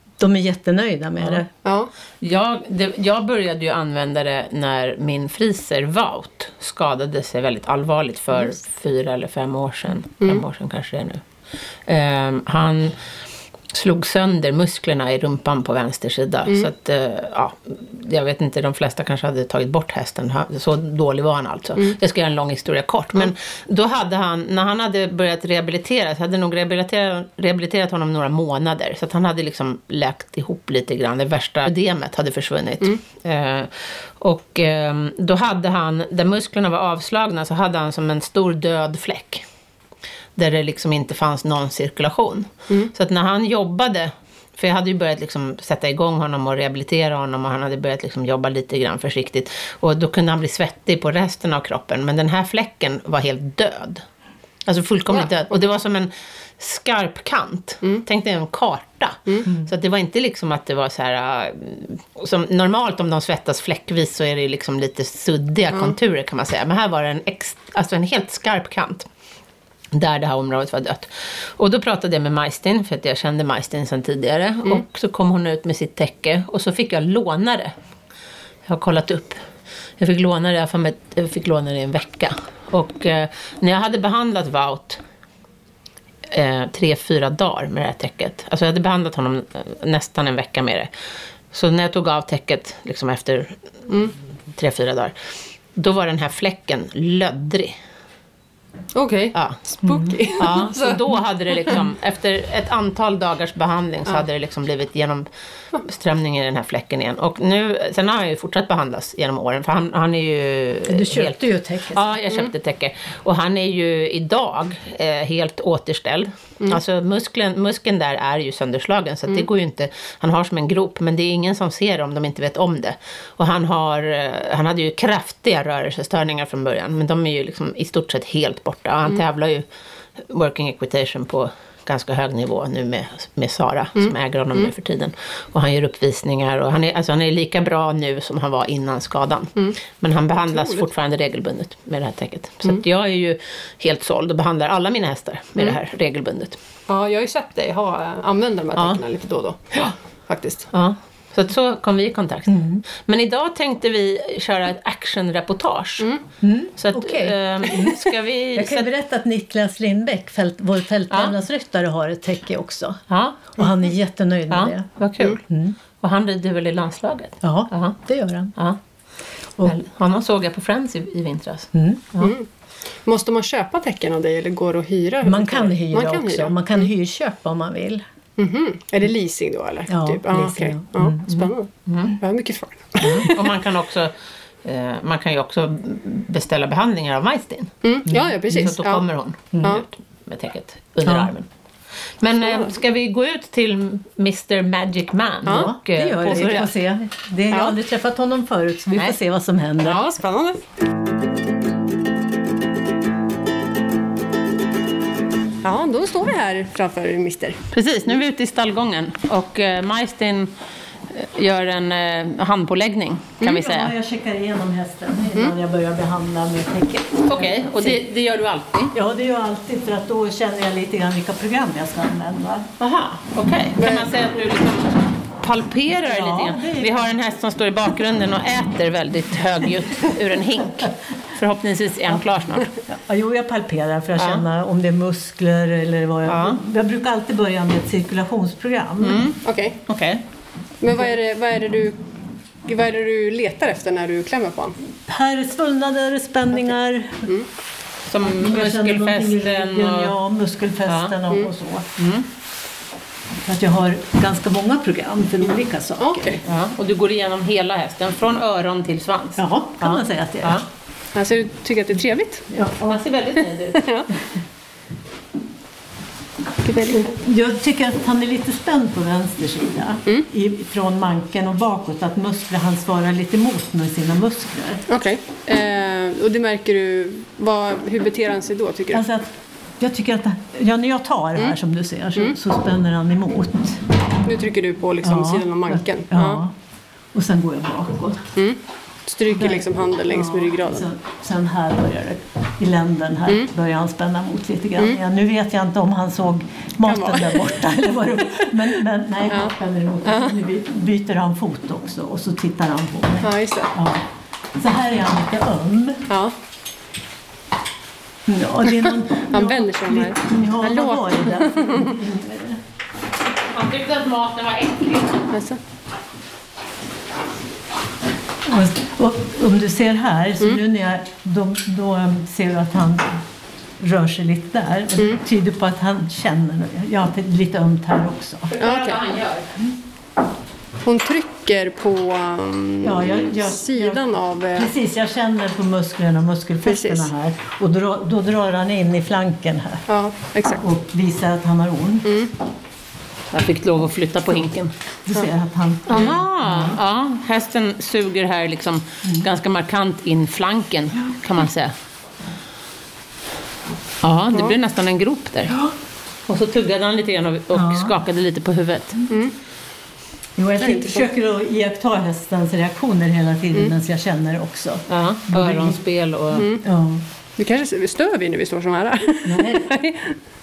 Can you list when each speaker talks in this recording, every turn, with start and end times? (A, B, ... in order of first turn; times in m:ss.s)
0:00.2-0:01.5 A
0:01.6-0:01.9 B
0:02.2-0:11.2 C
0:11.8-0:13.0 C
0:13.7-0:39.4 C
0:40.4-0:54.0 C
0:54.6-1:09.1 C
1:09.9-1:17.7 C
1:18.6-1:19.4 C
1:20.0-1:25.0 C
1:26.3-1:30.9 C
1:31.5-1:33.6 C
1:34.5-1:35.1 C
1:35.7-1:37.8 C
1:38.9-1:41.8 B
1:39.3-1:39.6 C
1:39.8-1:40.1 A
1:40.4-2:09.7 C
1:50.9-1:52.0 A
2:10.2-2:26.6 C
2:14.0-2:14.7 B
2:20.5-2:20.9 B
2:26.9-2:30.7 B
2:30.7-2:36.1 C
2:32.5-2:32.8 A
2:36.4-2:44.9 A
2:36.8-2:38.9 C
2:41.1-2:41.3 C
2:43.1-2:43.5 C
2:44.5-2:45.4 C
2:45.4-2:45.8 A
2:46.0-2:48.0 C
2:47.4-2:48.5 A
2:49.6-2:52.3 C
2:51.7-2:52.0 A
2:52.2-2:52.4 B
2:53.0-2:56.6 B
2:55.2-2:58.0 A
2:58.4-3:03.5 B
2:59.9-3:01.5 A
3:01.8-3:02.2 C
3:03.0-3:03.3 A
3:03.1-3:07.7 C
3:07.8-3:09.0 B
3:08.1-3:08.4 A
3:08.5-3:11.5 C
3:09.5-3:09.8 A
3:11.0-3:11.3 A
3:12.2-3:16.7 C
3:12.4-3:12.7 B
3:15.4-3:16.7 B
3:15.5-3:20.0 A
3:19.8-3:20.6 B
3:25.6-3:27.6 B
3:27.7-3:30.5 C
3:31.1-3:33.9 C
3:33.4-3:33.6 B
3:33.5-3:38.0 A
3:37.3-3:38.9 C
3:38.9-3:42.7 A
3:42.8-3:52.7 C
3:43.8-3:44.3 B
3:46.0-3:47.1 A
3:49.9-3:50.9 A
3:52.9-3:59.3 A
3:54.2-3:54.4 C
3:56.2-3:56.6 C
3:59.0-4:00.2 C
3:59.4-3:59.8 B
4:00.8-4:02.0 B
4:02.6-4:04.8 B
4:05.1-4:07.3 A
4:08.1-4:10.1 C
4:08.3-4:11.9 A
4:10.9-4:11.1 C
4:12.0-4:12.2 C
4:13.4-4:16.4 A
4:16.0-4:16.4 B
4:16.4-4:20.6 C
4:19.4-4:20.6 A
4:21.1-4:22.5 B
4:22.5-4:23.0 A
4:22.8-4:23.9 C
4:23.8-4:24.1 B
4:26.6-4:27.1 B
4:26.9-4:34.8 A
4:34.9-4:39.0 B
4:38.9-4:43.8 A
4:44.2-4:46.4 B
4:45.0-4:46.5 A
4:47.1-4:48.3 A
4:48.4-4:50.9 B
4:49.3-5:04.0 A
4:56.8-4:57.5 B
5:00.0-5:00.4 B
5:03.2-5:03.7 B
5:04.6-5:06.0 A
5:06.1-5:06.3 B
5:08.2-5:12.6 A
5:08.8-5:12.0 B
5:13.5-5:15.2 C
5:15.3-5:15.6 B
5:18.4-5:23.2 A
5:23.8-5:28.5 A
5:28.5-5:29.5 C
5:28.6-5:29.0 B
5:30.8-5:34.7 B
5:32.8-5:39.8 A
5:36.6-5:37.1 B
5:39.9-5:40.6 B
5:40.6-5:42.1 A
5:43.3-5:44.7 C
5:45.0-5:46.8 A
5:45.9-5:51.7 C
5:54.0-5:55.6 C
5:56.3-5:59.0 C
5:57.5-5:58.0 A
6:00.4-6:05.8 A
6:00.6-6:01.0 B
6:04.9-6:06.4 C
6:06.3-6:06.6 B
6:06.6-6:07.0 A
6:07.4-6:10.2 B
6:09.2-6:09.7 A